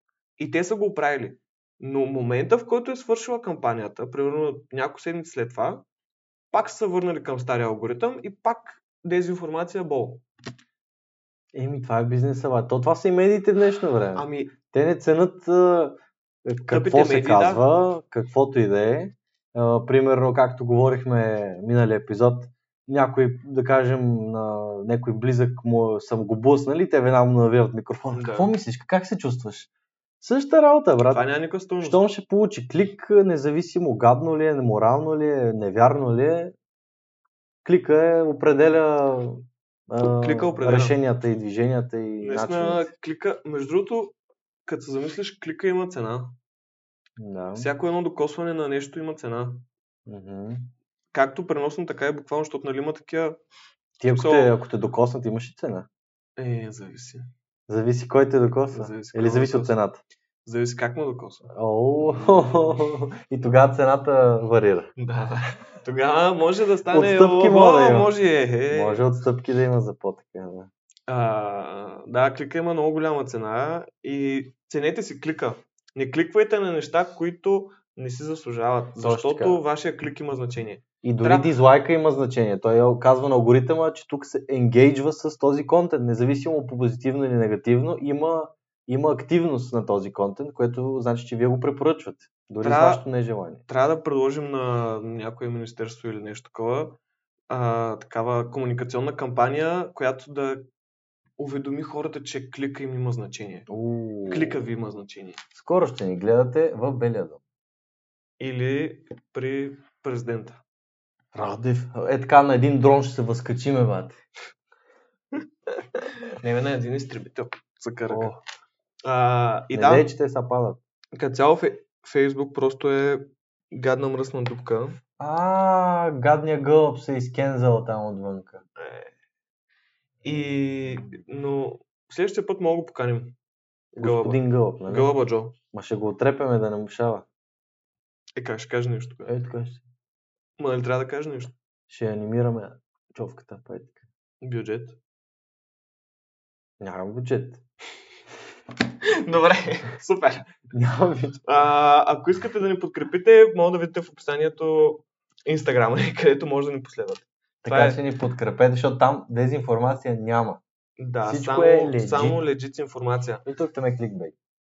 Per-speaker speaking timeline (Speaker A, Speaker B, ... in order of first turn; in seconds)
Speaker A: 0.4-5.8, 6.5-10.2, 14.1-14.6, 16.7-17.6, 28.1-28.5, 31.1-32.1, 40.2-41.0, 42.2-46.4, 47.5-49.6, 51.1-53.4, 54.1-54.5, 56.4-57.3, 58.7-59.8, 60.4-62.9, 65.0-69.0, 71.1-81.5, 92.6-93.0, 93.7-97.0, 97.5-100.7, 101.4-103.7, 104.3-105.4, 108.4-110.6, 115.4-118.3, 119.0-120.1, 121.1-125.0, 128.8-129.1, 130.2-133.4, 133.9-135.6, 138.4-139.3, 140.6-141.6, 144.4-145.0, 149.1-150.5, 151.4-158.0, 161.0-163.4
Speaker B: 11.5-29.7, 30.2-31.3, 31.8-36.5, 37.6-42.9, 47.2-47.7, 50.1-50.7, 54.0-55.9, 57.7-60.0, 61.5-64.9, 66.9-68.1, 68.7-70.7, 79.0-79.6, 81.0-93.6, 103.7-104.7, 105.5-107.4, 111.3-114.2, 118.1-118.4, 119.7-120.8, 125.2-128.6, 134.0-135.1, 135.7-137.2, 139.3-139.8, 141.9-144.0, 146.8-147.6, 150.7-151.4, 157.6-160.6, 161.2-162.4, 163.4-164.3